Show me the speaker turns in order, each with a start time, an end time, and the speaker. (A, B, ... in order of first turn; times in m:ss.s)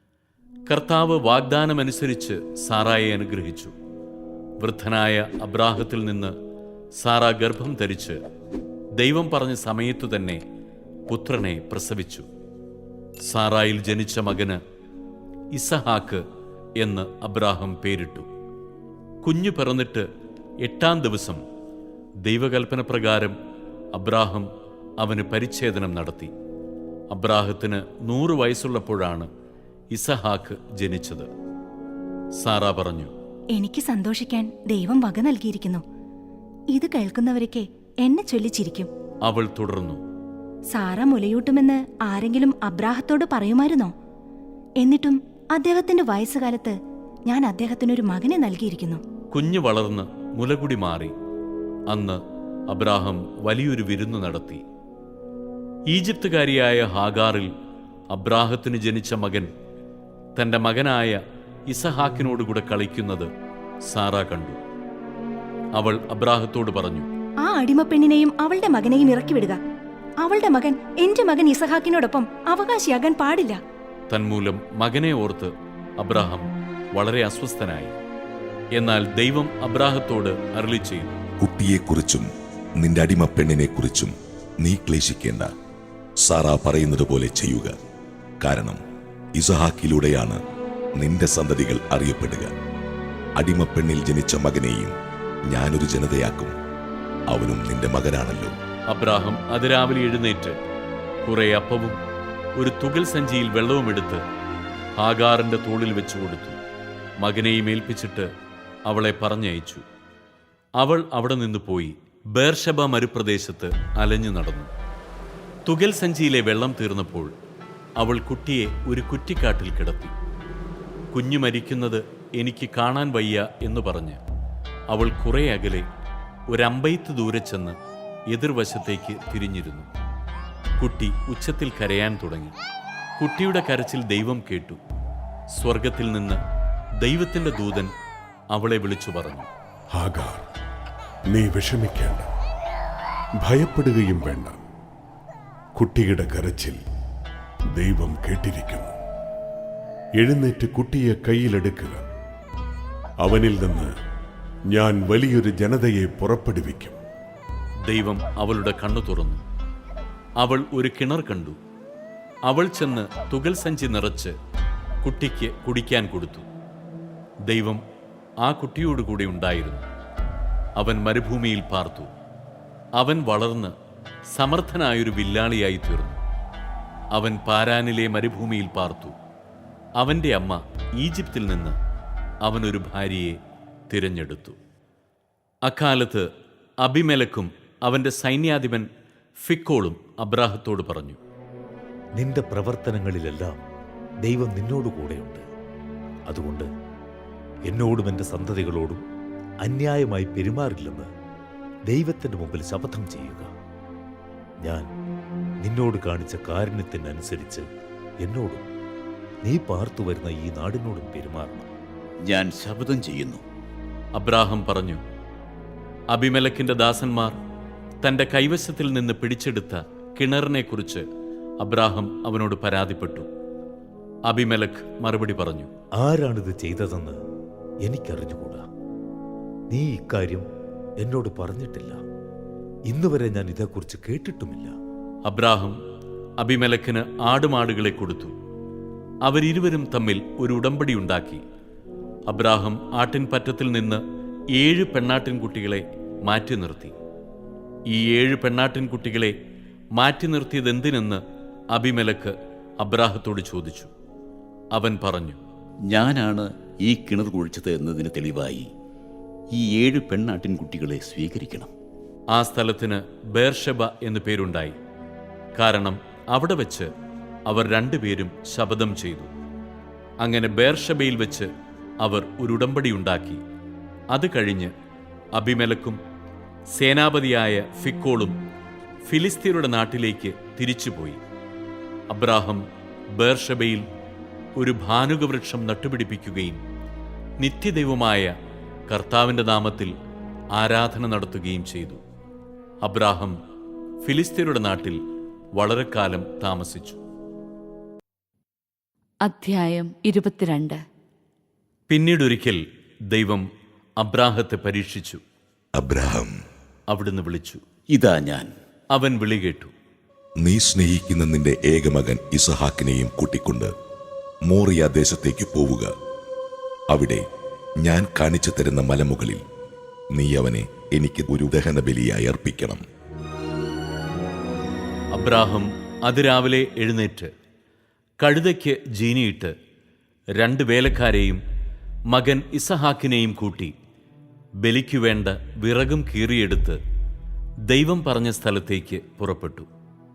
0:00.7-0:03.7 A
0:04.6-0:06.3 A
0:07.0-0:08.2 A
0:09.0-0:10.4 A
0:11.1-0:12.2 A
0:13.3-0:14.6 A
0:15.5-0:16.2 A
0:16.8-0:18.3 A
0:19.2-0:20.0 A
0:20.6-0:21.4 A
0:22.2-0:23.4 A
0:23.9-0:24.5 A
0:25.0-0:26.3 A
0:27.1-0:29.3 A
0:29.9-0:31.3 A
0:32.4-0:33.1 A
0:33.5-0:35.8 B
0:36.7-0:38.9 B
0:39.2-0:40.0 A
0:40.7-0:43.9 B
0:44.8-0:49.0 B
0:49.3-0:51.1 A
0:51.9-0:54.6 A
0:55.9-0:57.5 A
0:58.1-0:59.5 A
1:00.4-1:03.3 A
1:03.9-1:04.6 A
1:05.7-1:07.1 A
1:07.4-1:09.6 B
1:10.2-1:13.6 B
1:14.1-1:17.9 A
1:18.7-1:21.2 A
1:21.4-1:22.3 C
1:22.8-1:24.1 C
1:24.6-1:25.5 C
1:26.2-1:27.7 C
1:28.4-1:28.8 C
1:29.4-1:30.4 C
1:31.0-1:32.5 C
1:33.4-1:34.9 C
1:35.5-1:36.5 C
1:37.3-1:38.6 C
1:38.9-1:40.6 A
1:41.2-1:42.0 A
1:42.6-1:44.2 A
1:45.0-1:46.6 A
1:47.2-1:48.3 A
1:48.9-1:49.8 A
1:50.8-1:54.7 A
1:55.6-1:57.3 A
1:58.0-2:00.1 A
2:01.1-2:04.2 A
2:04.9-2:05.8 A
2:06.5-2:07.8 A
2:08.3-2:09.9 A
2:10.8-2:12.5 A
2:13.2-2:14.8 A
2:15.6-2:16.4 A
2:17.0-2:17.9 A
2:18.5-2:19.5 A
2:19.9-2:20.4 D
2:21.3-2:22.3 D
2:23.4-2:24.6 D
2:25.8-2:26.8 D
2:27.7-2:28.9 D
2:30.2-2:32.0 D
2:33.2-2:33.9 D
2:34.7-2:37.0 D
2:37.8-2:39.4 A
2:40.4-2:41.6 A
2:42.5-2:44.3 A
2:45.0-2:46.5 A
2:47.5-2:47.8 A
2:48.4-2:49.8 A
2:50.8-2:52.1 A
2:53.0-2:53.7 A
2:54.3-2:56.2 A
2:57.1-2:59.1 A
3:00.0-3:01.8 A
3:02.4-3:03.4 A
3:03.9-3:04.6 A
3:05.6-3:06.3 A
3:06.8-3:08.8 A
3:09.4-3:11.2 A
3:12.2-3:13.6 E
3:14.2-3:15.4 E
3:16.3-3:16.6 E
3:17.7-3:19.0 E
3:19.6-3:21.1 E
3:21.9-3:23.5 E
3:25.6-3:27.6 E
3:28.2-3:28.6 E
3:29.4-3:31.7 E
3:32.2-3:33.4 F
3:34.1-3:35.0 A
3:36.1-3:37.3 A
3:38.0-3:41.0 A
3:41.6-3:43.3 A
3:44.3-3:45.7 A
3:46.0-3:47.2 E
3:47.8-3:48.6 E
3:49.7-3:50.4 E
3:51.0-3:52.0 E
3:52.9-3:54.7 E
3:55.3-3:55.8 A
3:56.4-3:58.3 A
3:59.2-4:01.4 A
4:02.3-4:04.0 A
4:04.5-4:06.9 A
4:07.9-4:09.3 A
4:10.0-4:11.2 A
4:11.7-4:13.9 A
4:14.7-4:15.4 A
4:15.9-4:18.7 F
4:19.5-4:21.7 F
4:22.3-4:24.8 A
4:25.6-4:26.9 A
4:27.5-4:29.3 A
4:30.2-4:31.5 A
4:32.0-4:33.4 A
4:34.1-4:34.7 A
4:35.3-4:36.0 A
4:36.7-4:38.4 A
4:39.0-4:41.2 A
4:42.1-4:42.6 A
4:43.1-4:43.8 A
4:44.6-4:46.6 A
4:47.4-4:48.3 A
4:48.9-4:49.9 A
4:50.5-4:52.0 A
4:52.8-4:53.3 A
4:54.0-4:55.0 A
4:55.6-4:57.0 A
4:59.2-5:00.8 C
5:01.9-5:03.5 A
5:04.0-5:05.2 A
5:05.8-5:06.3 C
5:06.9-5:07.6 A
5:07.9-5:08.5 F
5:08.9-5:09.7 A
5:10.4-5:13.7 C
5:14.5-5:15.9 C
5:16.9-5:17.2 C
5:17.8-5:19.4 C
5:20.1-5:22.8 C
5:25.1-5:27.3 A
5:28.2-5:29.5 A
5:30.4-5:31.4 A
5:32.1-5:33.7 A
5:34.6-5:36.8 A
5:37.7-5:39.7 A